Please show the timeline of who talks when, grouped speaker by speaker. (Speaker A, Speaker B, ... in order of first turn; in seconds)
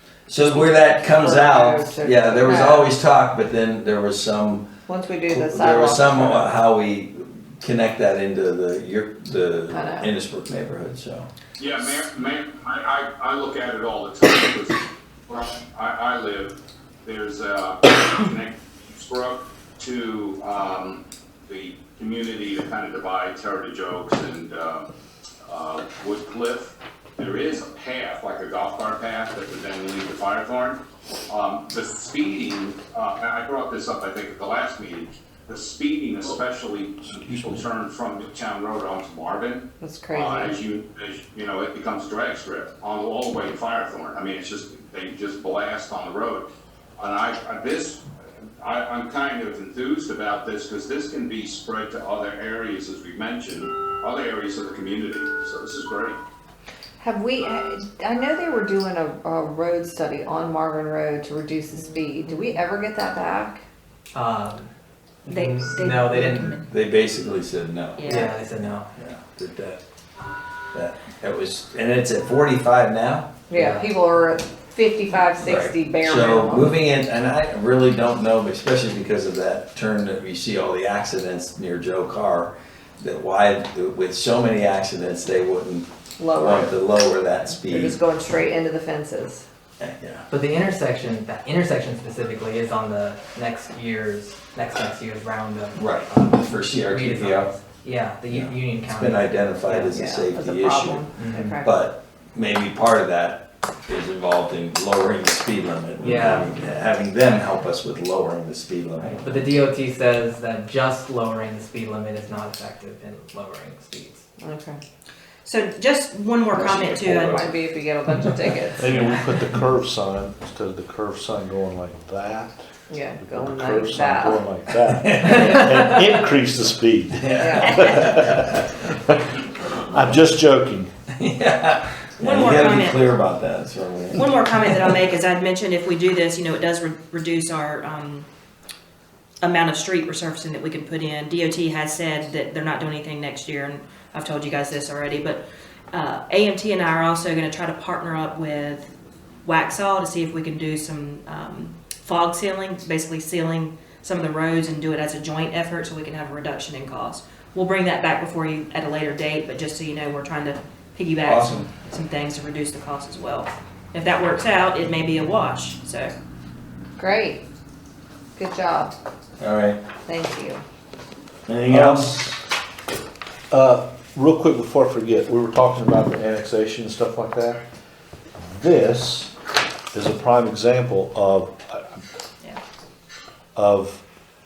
Speaker A: 0.3-4.7, 5.3-11.3, 66.1-69.8, 70.7-73.3, 75.4-88.0, 89.8-90.2, 95.7-97.5, 98.3-101.0, 101.6-109.5, 116.5-117.5, 125.0-125.9, 127.2-128.7, 131.2-134.9, 161.2-161.7, 169.4-169.8, 171.5-172.4
Speaker B: 0.4-2.9, 4.9-6.6, 9.7-10.1, 39.8-40.6, 57.0-63.6, 73.5-76.7, 86.2-86.8, 87.5-89.4, 99.9-101.7, 114.4-114.8, 117.1-119.0, 122.9-124.4, 127.4-127.8, 167.0-167.4, 168.3-168.9, 170.0-170.6
Speaker C: 11.6-24.9, 25.4-48.0, 48.6-56.2
Speaker D: 64.1-64.7, 65.2-66.5, 68.0-68.9, 73.5-73.9, 90.3-100.0, 101.2-101.6, 106.0-106.5, 109.0-114.2
Speaker E: 65.3-66.7, 68.0-68.4, 115.4-117.5, 127.6-128.2, 132.2-133.1, 134.1-138.3, 139.4-145.4, 145.9-148.9, 149.4-166.1
Speaker F: 118.8-122.5, 123.2-129.3, 129.9-130.9, 171.7-172.3, 173.5-177.6, 178.3-179.3, 179.9-182.0, 183.5-184.0